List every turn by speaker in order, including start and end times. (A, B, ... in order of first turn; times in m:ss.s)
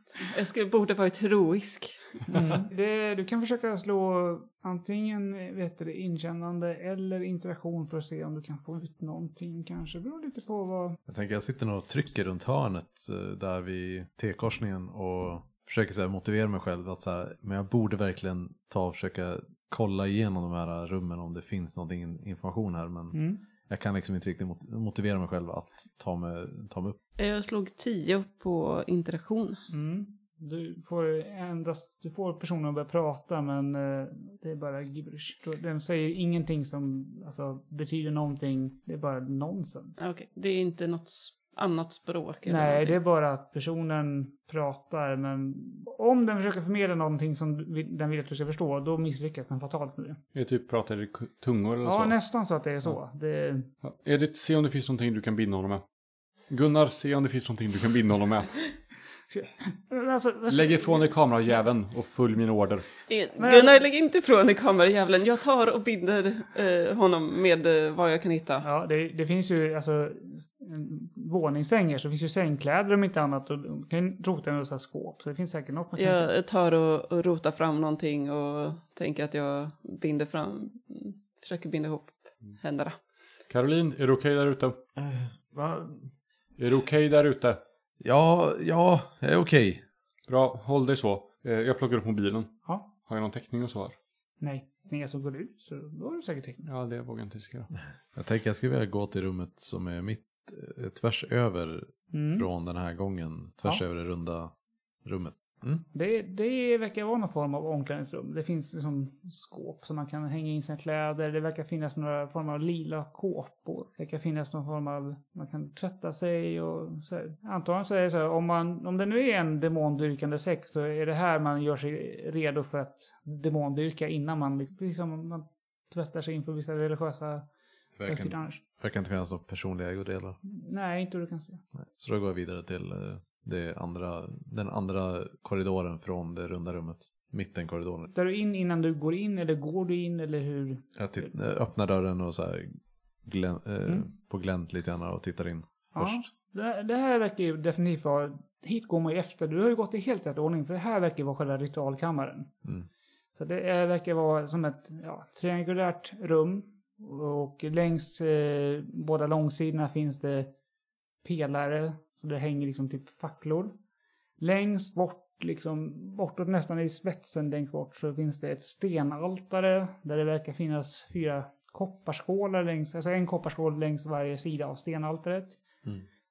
0:00.2-0:02.0 A
0:02.3-0:11.0 B
0:11.1-0:27.0 C
0:23.1-0:23.4 B
0:27.2-0:29.6 A
0:29.7-0:40.0 B
0:40.0-0:43.0 A
0:42.5-0:50.2 B
0:50.3-0:52.2 D
0:51.8-0:53.7 B
0:53.8-0:55.8 D
0:56.5-0:58.6 D
0:59.3-1:01.1 B
1:00.5-1:02.8 D
1:03.1-1:08.7 A
1:03.4-1:03.7 B
1:08.6-1:16.3 B
1:16.0-1:23.0 A
1:23.5-1:24.8 D
1:25.0-1:26.1 C
1:26.6-1:27.6 D
1:28.0-1:29.8 C
1:30.3-1:34.0 D
1:34.4-1:36.7 B
1:36.6-1:37.7 D
1:38.2-1:44.5 C
1:42.1-1:42.5 B
1:45.0-1:45.8 C
1:45.9-2:07.5 B
2:08.0-2:10.4 C
2:08.1-2:08.6 B
2:10.5-2:11.6 B
2:12.0-2:18.1 C
2:18.1-2:21.3 B
2:21.0-2:26.3 C
2:25.9-2:32.5 B
2:33.4-2:40.5 B
2:41.2-2:43.7 B
2:44.4-2:55.6 B